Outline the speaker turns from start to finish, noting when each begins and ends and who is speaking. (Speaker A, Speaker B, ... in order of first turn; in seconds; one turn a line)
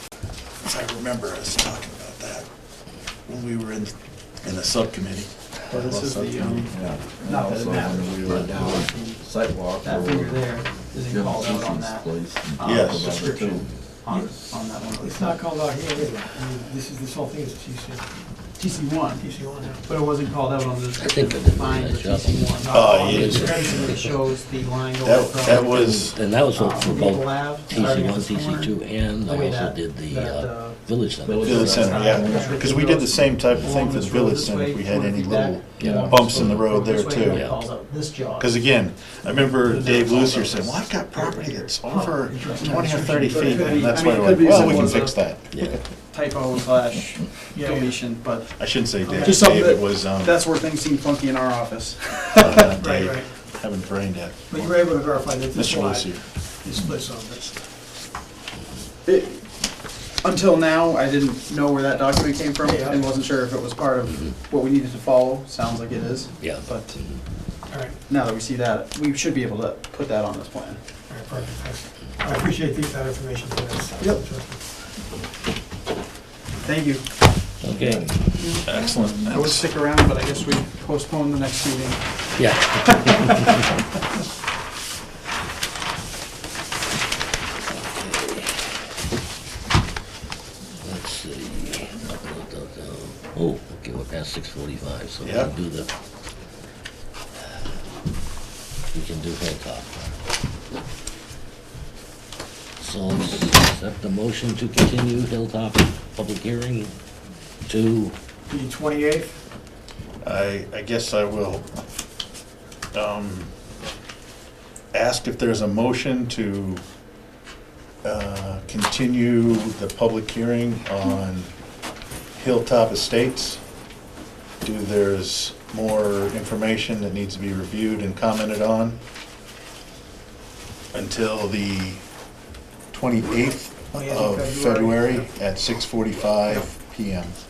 Speaker A: 0.6-2.5
Speaker A: 3.3-6.7
Speaker B: 5.7-9.2
Speaker C: 6.7-13.7
Speaker B: 9.8-15.4
Speaker A: 12.6-13.1
Speaker D: 14.1-14.3
Speaker D: 15.0-18.2
Speaker B: 18.6-19.2
Speaker D: 19.2-19.8
Speaker B: 19.8-28.7
Speaker E: 20.9-24.2
Speaker D: 22.6-23.9
Speaker A: 22.7-23.9
Speaker A: 25.0-26.2
Speaker E: 25.4-32.0
Speaker D: 30.1-30.8
Speaker C: 31.2-32.7
Speaker A: 31.4-37.4
Speaker D: 31.4-38.6
Speaker E: 35.8-36.7
Speaker C: 35.8-36.1
Speaker E: 37.2-37.5
Speaker A: 38.4-45.6
Speaker D: 39.6-44.0
Speaker B: 42.4-45.2
Speaker E: 45.5-45.8
Speaker B: 46.1-52.6
Speaker D: 47.5-48.0
Speaker A: 48.6-50.4
Speaker D: 49.2-49.5
Speaker A: 52.4-54.4
Speaker D: 52.8-53.3
Speaker D: 54.5-57.6
Speaker A: 55.5-56.2
Speaker B: 59.0-59.5
Speaker B: 60.2-67.0
Speaker D: 62.6-63.0
Speaker E: 66.4-67.2
Speaker D: 67.7-68.0
Speaker B: 68.1-70.8
Speaker D: 71.1-74.6
Speaker B: 76.6-77.1
Speaker E: 77.6-78.3
Speaker B: 78.4-82.0
Speaker A: 78.7-79.7
Speaker E: 82.4-83.5
Speaker E: 90.8-95.9
Speaker A: 95.2-95.5
Speaker E: 98.9-100.1
Speaker E: 102.8-107.0
Speaker E: 107.7-108.2
Speaker D: 108.5-109.4
Speaker A: 110.2-111.8
Speaker A: 112.9-113.5
Speaker A: 114.9-116.8
Speaker A: 118.0-121.5
Speaker A: 122.3-123.6
Speaker A: 124.6-129.0
Speaker A: 130.9-132.0
Speaker A: 132.9-137.3
Speaker D: 133.9-135.3